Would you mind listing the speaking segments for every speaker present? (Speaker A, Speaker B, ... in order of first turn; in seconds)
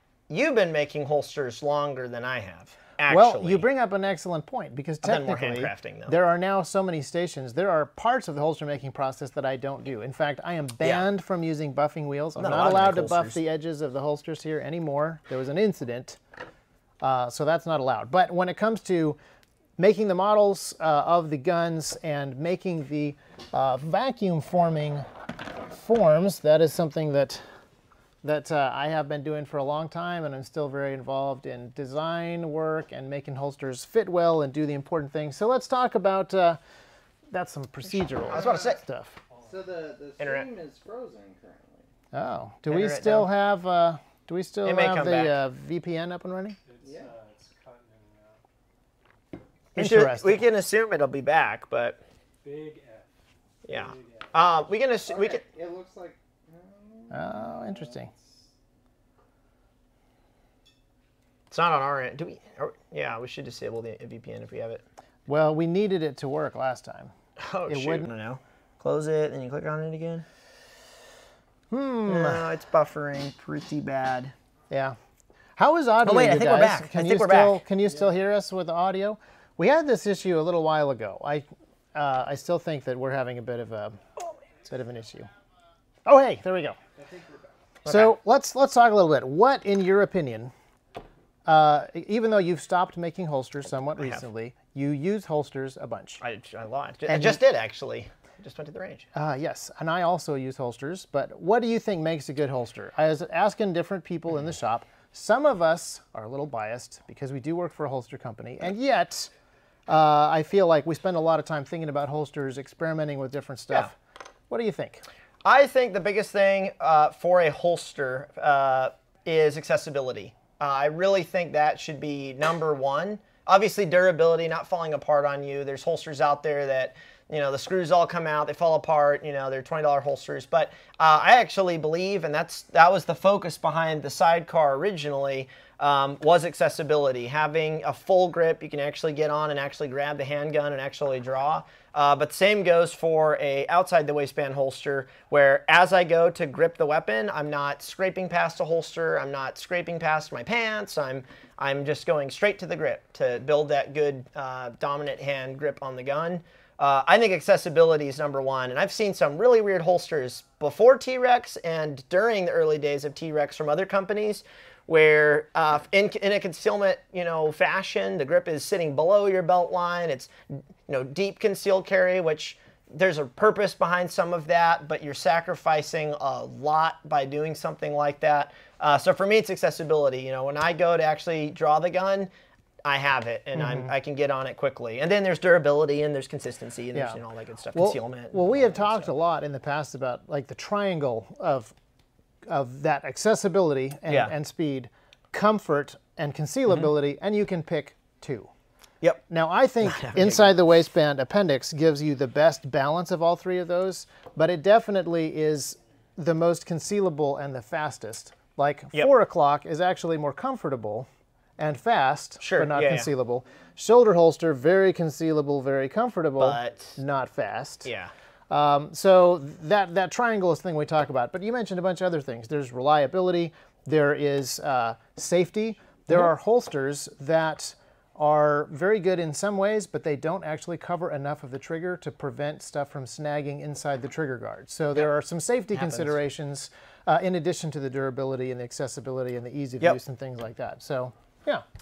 Speaker A: 0.3-3.6, 5.0-6.2, 12.4-13.4, 38.3-38.8, 40.2-40.5, 42.7-43.3, 44.6-45.4, 49.8-52.0, 53.6-55.5, 61.5-64.8, 67.4-70.2, 72.1-74.3, 76.0-77.6, 87.8-88.1, 94.0-94.2, 96.2-99.1, 115.4-170.3, 170.9-182.3, 182.8-189.1, 194.1-194.3, 199.8-200.5, 212.4-213.1, 216.4-217.0, 217.8-218.1, 235.8-236.2
Speaker B: 3.1-16.2, 17.0-19.2, 19.8-25.1, 25.7-27.4, 28.2-36.6, 37.3-39.2, 42.1-46.6, 49.8-50.4, 57.1-58.1, 65.3-67.1, 67.7-68.1, 71.7-72.5, 74.7-75.0, 75.6-84.0, 84.7-85.3, 86.1-86.8, 87.9-90.5, 91.5-96.2, 97.1-97.4, 99.2-109.3, 109.9-114.0, 114.5-115.0, 183.6-183.9, 186.9-187.2, 187.8-191.7, 192.5-198.5, 199.3-217.9, 218.5-241.6
Speaker C: 38.4-38.7, 39.3-39.6, 46.7-48.4, 52.4-53.1, 53.6-54.3, 87.0-87.5
Speaker D: 39.4-41.9, 46.8-47.1, 55.1-58.5